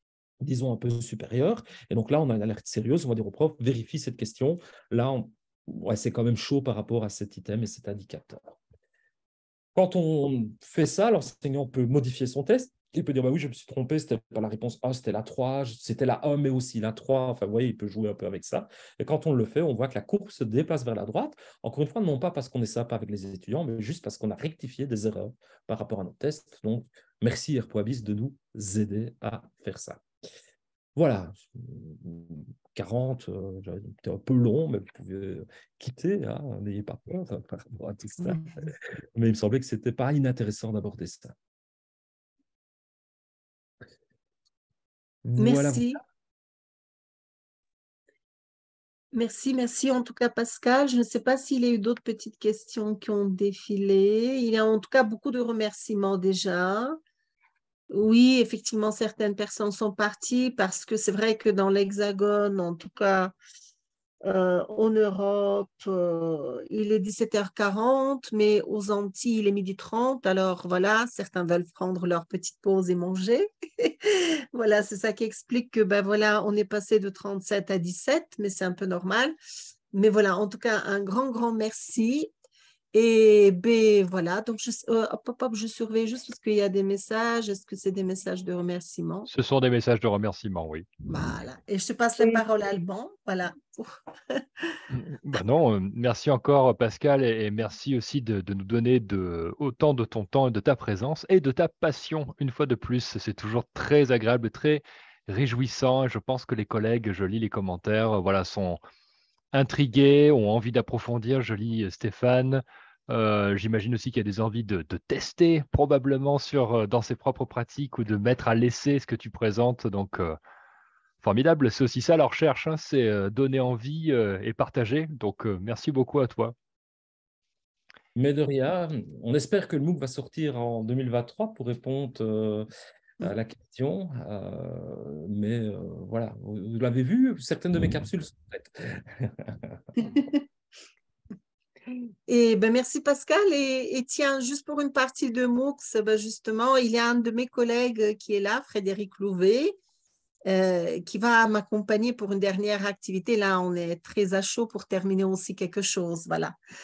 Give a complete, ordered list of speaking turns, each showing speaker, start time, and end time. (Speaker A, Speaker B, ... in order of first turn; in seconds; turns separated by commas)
Speaker A: 0.4-8.6, Speaker A: 9.7-30.0, Speaker A: 30.9-38.5, Speaker A: 39.1-41.3, Speaker A: 45.2-45.9, Speaker B: 45.4-46.0, Speaker B: 49.1-57.0, Speaker B: 57.9-63.3, Speaker B: 64.2-79.3, Speaker B: 79.9-82.3, Speaker B: 82.9-89.3, Speaker C: 89.3-90.9, Speaker B: 91.1-94.8, Speaker C: 94.9-108.8, Speaker C: 109.5-120.4, Speaker C: 121.2-126.5, Speaker A: 128.2-132.7, Speaker A: 133.2-139.8, Speaker B: 142.3-149.8, Speaker B: 150.4-156.5